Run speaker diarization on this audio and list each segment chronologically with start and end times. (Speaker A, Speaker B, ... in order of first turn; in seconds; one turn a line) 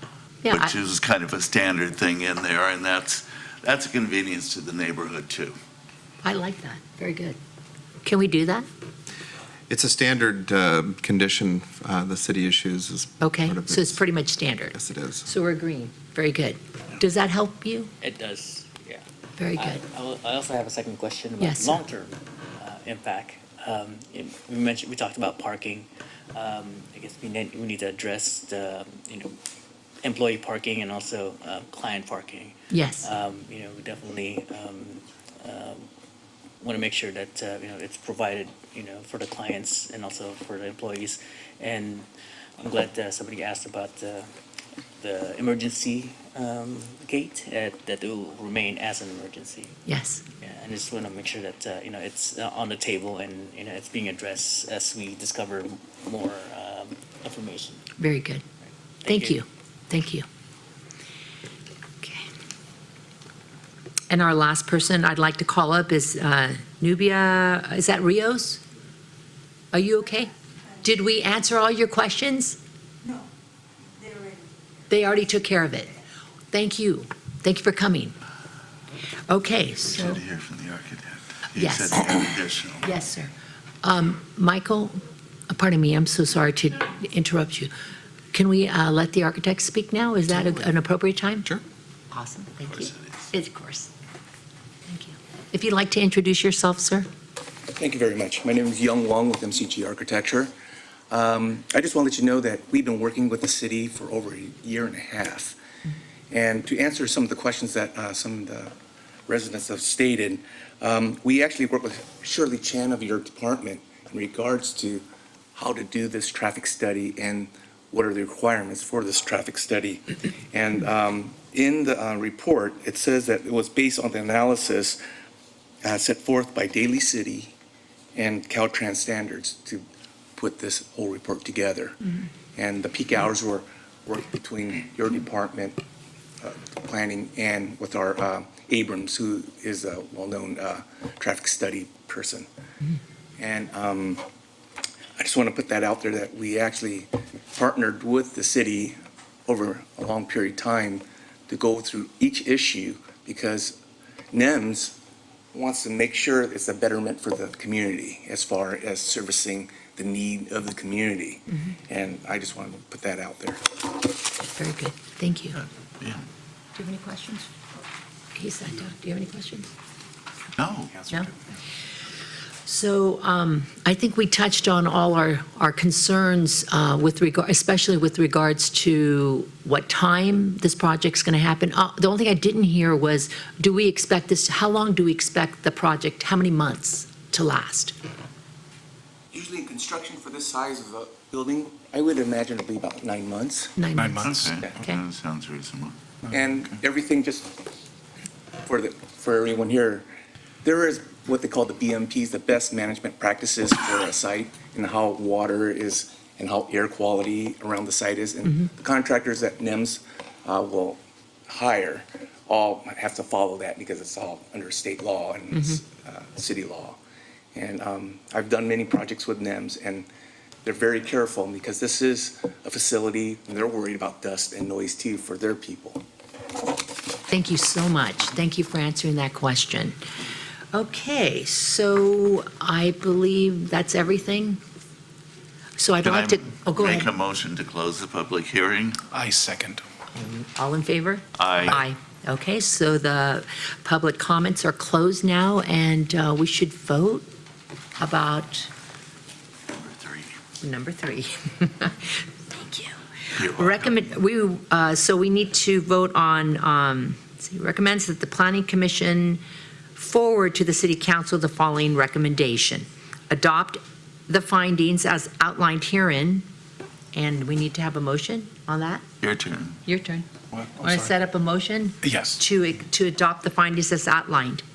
Speaker A: 0.4-0.7
Speaker B: 0.5-5.5
Speaker A: 6.2-7.4
Speaker A: 8.0-8.7
Speaker C: 9.7-14.1
Speaker A: 13.2-17.9
Speaker C: 14.7-15.3
Speaker D: 18.0-19.0
Speaker A: 19.4-19.8
Speaker D: 19.6-29.4
Speaker A: 21.4-21.8
Speaker D: 30.0-35.9
Speaker A: 32.7-33.1
Speaker D: 36.6-42.1
Speaker D: 42.6-44.3
Speaker D: 45.0-49.8
Speaker A: 49.9-50.2
Speaker D: 50.4-57.8
Speaker A: 58.0-58.4
Speaker D: 58.6-59.4
Speaker A: 59.0-60.2
Speaker A: 62.0-62.3
Speaker A: 64.1-68.6
Speaker A: 69.7-72.6
Speaker A: 74.9-76.0
Speaker A: 76.5-78.1
Speaker A: 79.3-80.2
Speaker B: 79.8-82.9
Speaker A: 81.6-82.1
Speaker A: 82.8-83.3
Speaker A: 83.8-85.0
Speaker A: 85.5-87.7
Speaker A: 88.3-91.5
Speaker C: 90.3-90.7
Speaker A: 92.1-93.9
Speaker B: 92.7-93.3
Speaker A: 94.9-97.1
Speaker E: 97.8-100.5
Speaker E: 101.1-105.5
Speaker E: 106.3-108.7
Speaker E: 109.3-115.0
Speaker E: 115.5-125.0
Speaker E: 125.8-127.5
Speaker E: 128.1-129.8
Speaker E: 130.3-132.0
Speaker E: 132.5-135.8
Speaker E: 136.4-142.5
Speaker E: 143.4-144.2
Speaker E: 145.2-153.8
Speaker E: 154.3-154.9
Speaker E: 155.5-163.7
Speaker A: 164.4-165.6
Speaker B: 165.5-166.3
Speaker A: 166.8-167.5
Speaker A: 168.3-169.7
Speaker B: 170.6-171.1
Speaker A: 172.7-187.9
Speaker E: 189.3-193.8
Speaker A: 193.8-195.0
Speaker F: 193.9-194.5
Speaker B: 194.2-195.9
Speaker E: 196.3-197.6
Speaker E: 198.6-200.1
Speaker E: 200.6-217.0
Speaker E: 217.5-220.1
Speaker E: 220.6-226.0
Speaker A: 227.3-229.9
Speaker A: 230.7-234.6
Speaker A: 235.8-237.1
Speaker B: 236.0-239.0
Speaker F: 239.1-239.8
Speaker A: 240.1-247.2
Speaker B: 241.3-241.8
Speaker A: 248.0-248.7
Speaker B: 249.7-250.3
Speaker A: 250.6-259.4
Speaker B: 253.3-253.9
Speaker A: 259.9-266.4
Speaker A: 267.1-269.0
Speaker B: 269.2-269.8
Speaker A: 269.9-274.6
Speaker F: 270.5-271.1
Speaker F: 272.0-272.4